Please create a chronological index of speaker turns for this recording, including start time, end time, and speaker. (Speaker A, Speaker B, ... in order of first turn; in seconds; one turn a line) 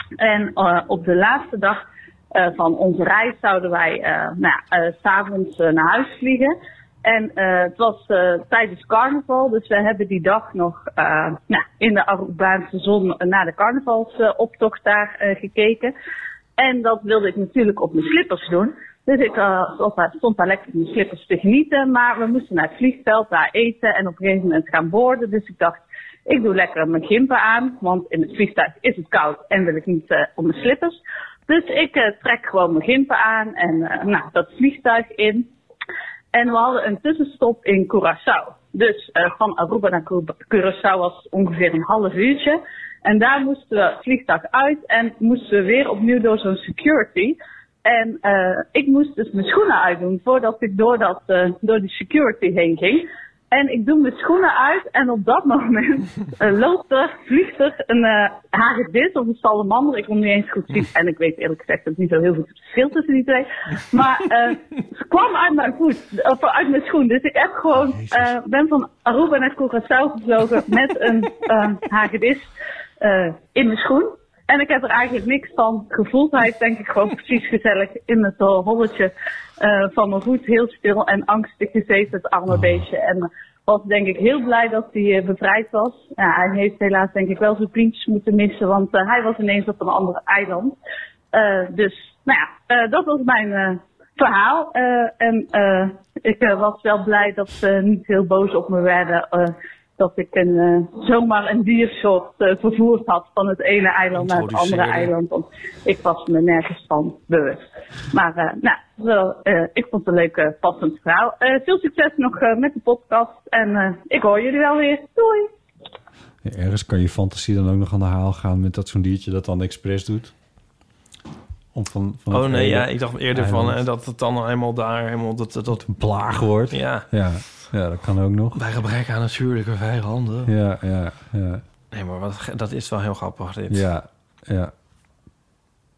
Speaker A: 0.2-15.9
Speaker A: 16.6-35.5
Speaker A: 36.3-90.7
Speaker B: 67.7-68.3
Speaker B: 82.5-82.8
Speaker A: 91.3-115.5
Speaker C: 104.1-105.1
Speaker B: 116.4-120.3
Speaker B: 121.7-123.8
Speaker C: 122.3-125.9
Speaker B: 125.8-128.6
Speaker C: 126.7-127.1
Speaker C: 128.6-130.5
Speaker B: 130.4-131.6
Speaker C: 131.9-133.9
Speaker B: 133.7-134.7